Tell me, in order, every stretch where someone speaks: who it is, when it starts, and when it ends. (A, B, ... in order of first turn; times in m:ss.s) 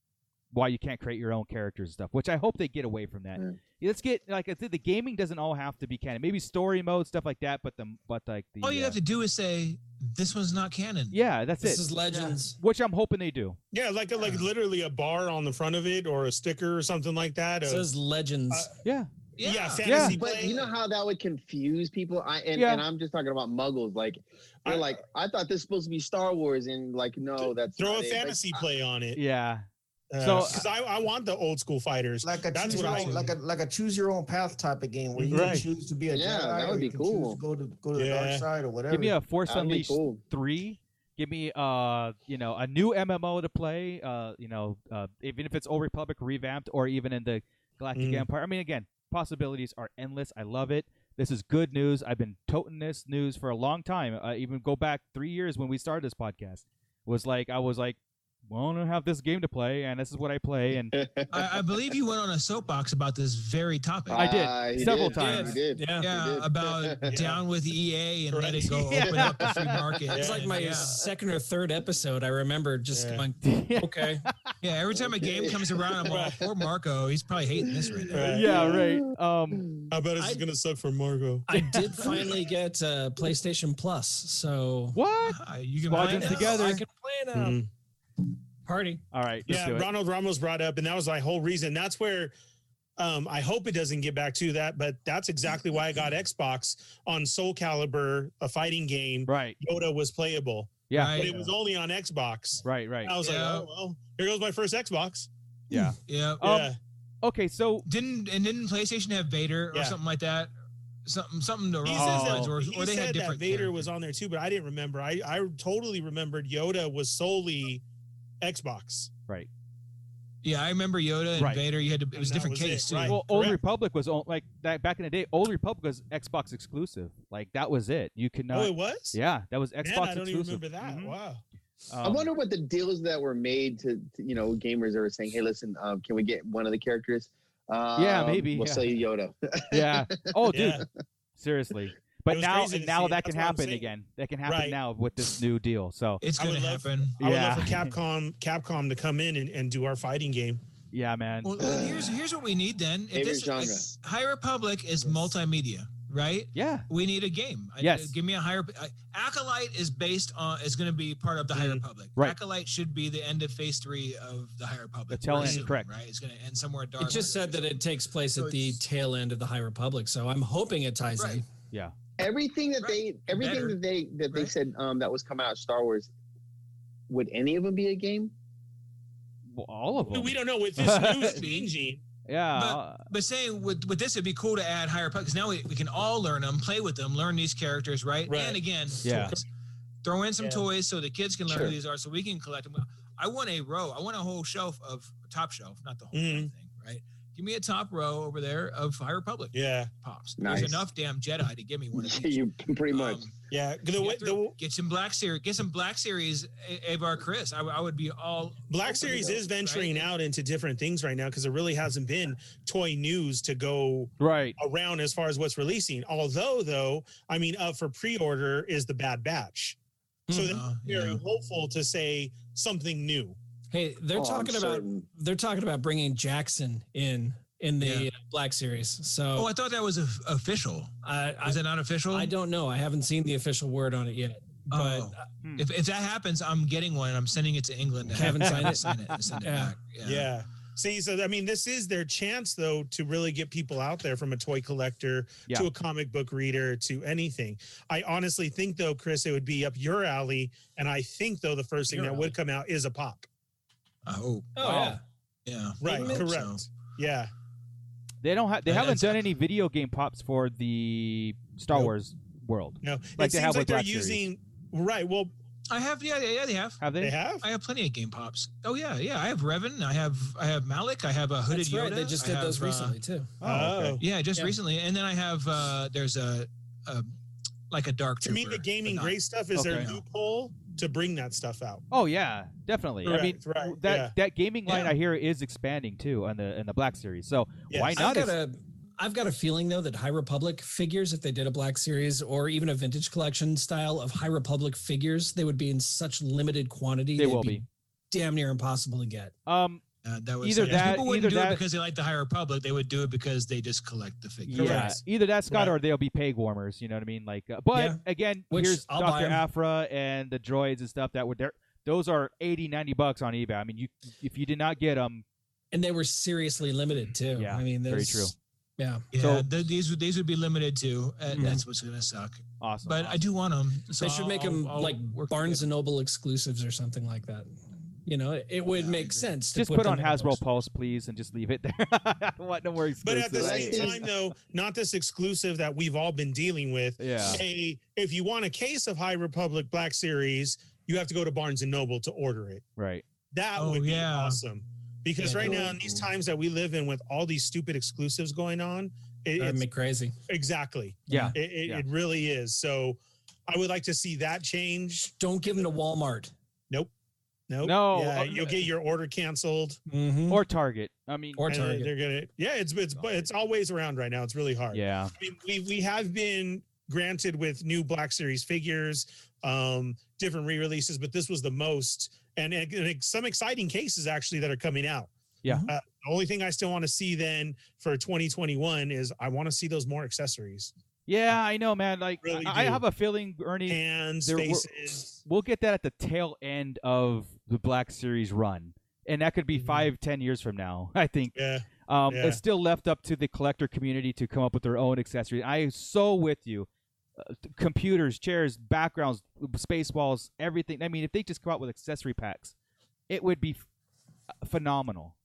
0:00.5-0:09.0 A
0:08.6-0:11.2 B
0:11.1-0:13.6 A
0:11.6-0:12.6 C
0:13.7-0:17.9 D
0:17.6-0:18.7 C
0:19.4-0:20.1 B
0:19.4-0:20.7 D
0:19.8-0:20.2 A
0:20.1-0:28.6 E
0:22.6-0:22.8 A
0:24.6-0:25.0 D
0:27.4-0:29.2 D
0:29.2-0:29.6 A
0:30.1-0:33.3 D
0:30.2-0:30.6 A
0:32.2-0:39.2 F
0:32.7-0:33.4 B
0:35.2-0:35.7 D
0:35.3-0:35.7 A
0:36.1-0:37.4 E
0:38.0-0:38.5 D
0:38.9-1:00.9 A
0:39.5-0:40.2 E
0:48.0-0:48.3 D
1:00.9-1:01.4 E
1:01.3-1:04.2 B
1:04.1-1:07.1 E
1:04.1-1:05.6 A
1:04.9-1:11.0 B
1:05.7-1:06.1 C
1:07.1-1:07.4 D
1:08.3-1:09.0 D
1:08.9-1:09.7 A
1:09.2-1:10.1 E
1:10.1-1:14.3 C
1:10.1-1:10.7 D
1:12.9-1:13.2 D
1:13.4-1:14.3 A
1:14.6-1:18.4 B
1:15.0-1:16.5 E
1:16.1-1:16.4 D
1:17.7-1:19.9 E
1:18.1-1:18.8 D
1:18.3-1:19.7 A
1:19.9-1:22.1 D
1:20.2-1:20.4 C
1:21.5-1:25.0 C
1:25.0-1:26.8 A
1:25.2-1:26.6 B
1:25.9-1:27.6 C
1:27.4-1:27.7 D
1:28.6-1:29.0 C
1:29.1-1:29.9 A
1:29.5-1:32.3 D
1:33.0-1:45.3 D
1:39.3-1:39.6 A
1:40.9-1:41.5 A
1:40.9-1:41.3 B
1:42.6-1:43.2 A
1:43.2-1:43.7 B
1:45.7-1:46.7 A
1:46.1-1:46.5 B
1:46.4-1:46.8 D
1:47.2-1:47.9 A
1:47.9-1:50.5 B
1:49.7-1:50.0 D
1:51.0-1:53.9 B
1:51.8-1:57.8 D
1:51.9-1:52.5 A
1:58.4-1:59.1 D
2:00.4-2:03.2 B
2:01.4-2:01.6 A
2:02.2-2:03.6 D
2:03.1-2:11.2 A
2:08.5-2:09.2 D
2:09.8-2:11.4 D
2:11.9-2:12.3 A
2:12.0-2:20.7 E
2:18.0-2:18.9 A
2:19.7-2:20.8 A
2:20.5-2:20.8 D
2:21.4-2:26.2 A
2:22.3-2:23.9 D
2:24.4-2:24.8 D
2:26.2-2:27.2 B
2:26.4-2:30.6 D
2:27.2-2:27.9 A
2:30.9-2:31.5 A
2:31.4-2:47.8 B
2:31.6-2:32.1 E
2:33.1-2:34.0 E
2:36.6-2:36.9 A
2:37.8-2:38.1 A
2:41.5-2:41.8 D
2:45.1-2:45.9 A
2:47.0-2:51.5 C
2:48.3-2:48.8 B
2:51.2-2:51.4 B
2:52.2-2:56.1 E
2:52.8-2:53.8 B
2:57.1-2:58.3 E
2:59.5-3:01.4 A
3:00.1-3:02.0 D
3:01.0-3:01.7 B
3:02.3-3:03.0 A
3:02.6-3:09.4 B
3:08.3-3:09.4 D
3:09.0-3:09.4 A
3:10.0-3:23.4 B
3:11.5-3:11.8 E
3:16.1-3:16.5 D
3:19.5-3:19.9 D
3:20.4-3:20.9 E
3:22.0-3:23.2 E
3:23.5-3:24.6 D
3:24.0-3:30.1 B
3:28.7-3:39.8 D
3:34.2-3:34.6 A
3:40.3-3:40.6 C
3:40.3-3:43.4 D
3:40.5-3:41.2 B
3:43.7-3:49.5 C
3:44.1-3:45.0 E
3:47.8-3:48.1 B
3:49.4-3:52.3 B
3:51.0-3:55.2 C
3:54.7-4:00.3 B
3:58.1-3:59.8 C
4:00.0-4:13.3 D
4:11.9-4:12.3 C
4:14.1-4:14.7 B
4:14.6-4:15.0 C
4:14.6-4:15.0 A
4:15.5-4:16.6 B
4:15.8-4:17.3 D
4:15.9-4:16.3 C
4:18.2-4:24.2 A
4:18.7-4:19.2 B
4:22.8-4:25.3 D
4:25.7-4:26.8 B
4:26.8-4:27.2 A
4:27.0-4:27.4 D
4:27.4-4:33.0 B
4:31.5-4:33.4 C
4:33.4-4:34.0 A
4:33.4-4:34.0 D
4:34.0-4:37.1 B
4:37.7-4:39.2 B
4:38.2-4:41.8 D
4:39.6-4:39.9 A
4:39.7-4:40.0 B
4:41.9-4:48.4 A
4:43.0-4:44.1 D
4:47.7-4:48.0 D
4:48.0-4:59.3 C
4:57.2-4:57.6 A
4:59.5-4:59.8 A
5:00.0-5:04.8 B
5:00.4-5:01.6 A
5:00.6-5:00.9 D
5:04.5-5:15.2 A
5:04.6-5:05.8 D
5:04.6-5:04.9 C
5:07.7-5:09.4 C
5:15.7-5:19.1 C
5:17.4-5:18.3 A
5:19.1-5:25.7 B
5:19.2-5:19.5 A
5:21.3-5:21.6 C
5:22.6-5:23.2 A
5:24.0-5:27.5 C
5:28.0-5:30.4 C
5:28.7-5:29.3 B
5:29.6-5:34.0 A
5:33.0-5:42.6 D
5:33.4-5:34.0 E
5:37.0-5:37.4 A
5:42.8-5:43.0 A
5:43.3-5:49.6 D
5:43.6-5:44.4 B
5:45.2-5:46.1 B
5:49.4-5:50.2 C
5:50.3-5:55.1 D
5:51.1-5:51.4 C
5:51.1-5:51.9 A
5:55.0-5:56.3 C
5:57.5-5:59.8 D
5:57.6-5:58.6 A
5:59.9-6:00.4 C
6:00.3-6:01.4 A
6:01.4-6:01.9 C
6:01.5-6:15.1 D
6:04.7-6:05.1 A
6:15.7-6:20.7 D
6:21.1-6:31.4 A
6:22.2-6:22.8 D
6:23.7-6:25.2 D
6:29.5-6:29.9 D
6:31.3-6:32.4 D
6:31.9-6:36.7 A
6:37.2-6:42.5 A
6:43.1-6:43.6 A
6:44.4-6:45.2 A